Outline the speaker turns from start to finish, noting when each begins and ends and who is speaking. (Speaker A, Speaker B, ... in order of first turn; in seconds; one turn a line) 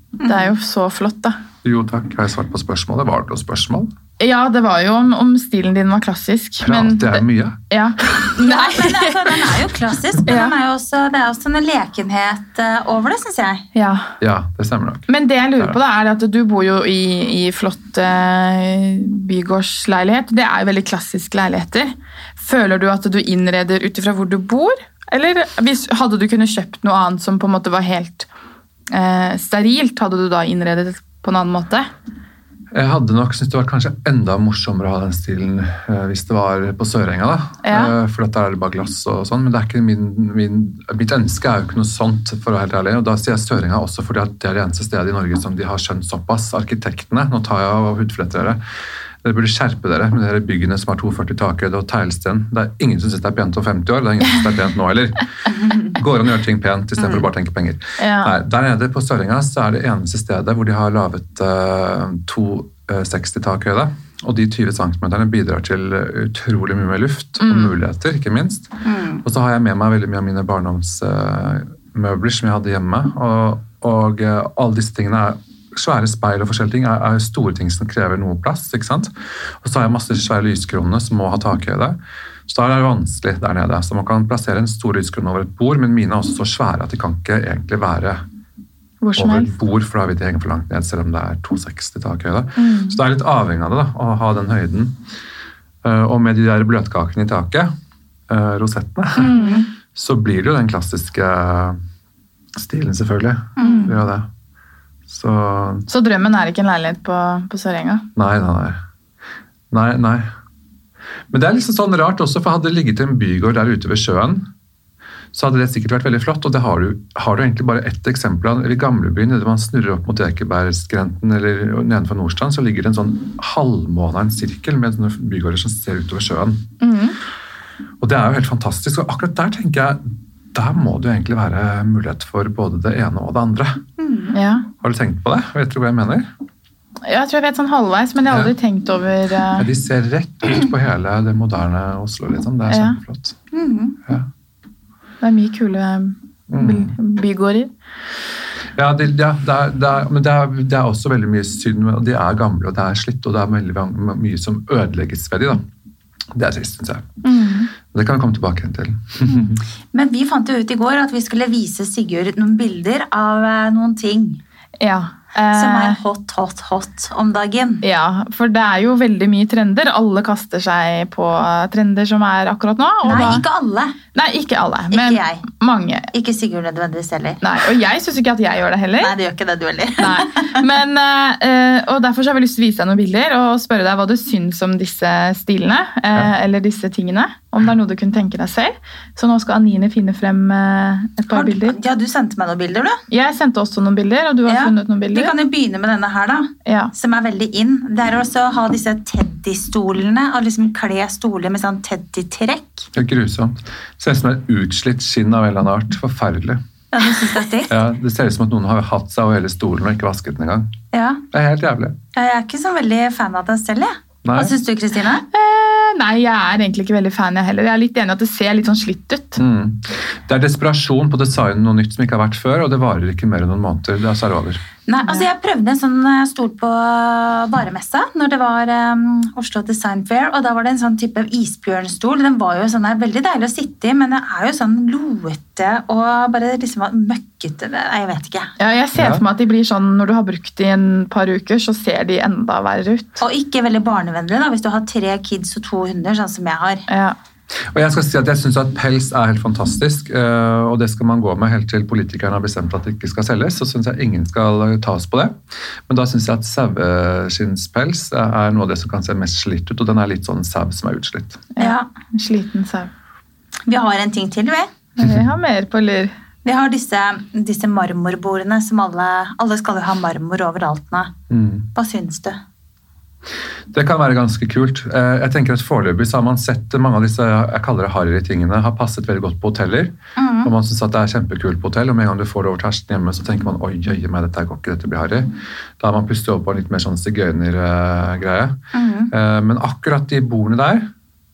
Speaker A: 0.2-0.5
Speaker B: 0.2-1.4
Speaker C: 1.6-3.9
Speaker B: 4.2-9.3
Speaker C: 6.6-7.6
Speaker A: 8.3-13.7
Speaker B: 10.2-10.5
Speaker B: 13.7-14.1
Speaker C: 14.2-15.8
Speaker B: 15.1-28.3
Speaker B: 28.9-31.9
Speaker C: 32.7-48.6
Speaker B: 37.6-37.9
Speaker C: 49.2-68.7
Speaker A: 55.6-55.9
Speaker B: 58.0-58.3
Speaker B: 67.4-67.7
Speaker A: 68.8-69.2
Speaker C: 69.2-79.1
Speaker C: 79.6-88.2
Speaker B: 89.0-89.5
Speaker C: 89.2-95.0
Speaker B: 92.6-93.0
Speaker C: 95.8-97.7
Speaker C: 98.3-99.3
Speaker B: 99.2-99.7
Speaker A: 99.3-99.6
Speaker C: 99.9-101.8
Speaker C: 102.5-104.3
Speaker A: 103.5-104.0
Speaker B: 103.6-104.0
Speaker C: 105.1-105.8
Speaker B: 105.9-108.0
Speaker C: 108.2-108.8
Speaker C: 109.7-110.3
Speaker C: 111.3-114.5
Speaker C: 115.3-126.6
Speaker B: 126.8-127.2
Speaker C: 128.0-130.0
Speaker C: 130.5-133.8
Speaker A: 134.0-134.3
Speaker B: 134.3-134.7
Speaker C: 134.8-136.3
Speaker B: 137.1-139.7
Speaker C: 138.3-138.5
Speaker C: 139.5-143.3
Speaker B: 142.7-143.0
Speaker A: 143.5-144.0
Speaker B: 145.2-147.7
Speaker C: 146.5-146.9
Speaker C: 148.7-155.6
Speaker C: 156.3-157.1
Speaker B: 157.2-157.7
Speaker C: 157.9-159.6
Speaker A: 159.9-164.4
Speaker B: 164.8-166.0
Speaker A: 165.5-167.8
Speaker B: 167.8-173.4
Speaker A: 173.0-174.0
Speaker B: 174.1-176.1
Speaker A: 174.9-175.4
Speaker A: 176.1-177.4
Speaker B: 177.4-179.1
Speaker A: 179.0-180.6
Speaker B: 180.0-191.8
Speaker A: 191.3-193.0
Speaker B: 193.1-195.3
Speaker A: 194.5-202.9
Speaker B: 196.7-196.9
Speaker C: 202.9-206.6
Speaker A: 206.9-207.8
Speaker C: 207.7-210.7
Speaker A: 210.9-211.2
Speaker C: 211.3-212.0
Speaker A: 212.1-215.2
Speaker C: 214.2-214.5
Speaker B: 215.3-219.4
Speaker C: 219.4-224.6
Speaker A: 224.9-238.5
Speaker B: 238.6-243.2
Speaker C: 238.9-239.2
Speaker A: 243.2-246.8
Speaker B: 246.9-247.1
Speaker C: 247.7-255.4
Speaker C: 255.9-261.4
Speaker B: 261.6-262.9
Speaker A: 261.6-261.9
Speaker A: 263.7-264.7
Speaker B: 265.0-266.1
Speaker A: 266.4-271.1
Speaker C: 271.3-271.7
Speaker A: 271.7-272.4
Speaker C: 273.7-288.6
Speaker A: 280.1-280.5
Speaker A: 288.7-289.1
Speaker C: 289.1-290.9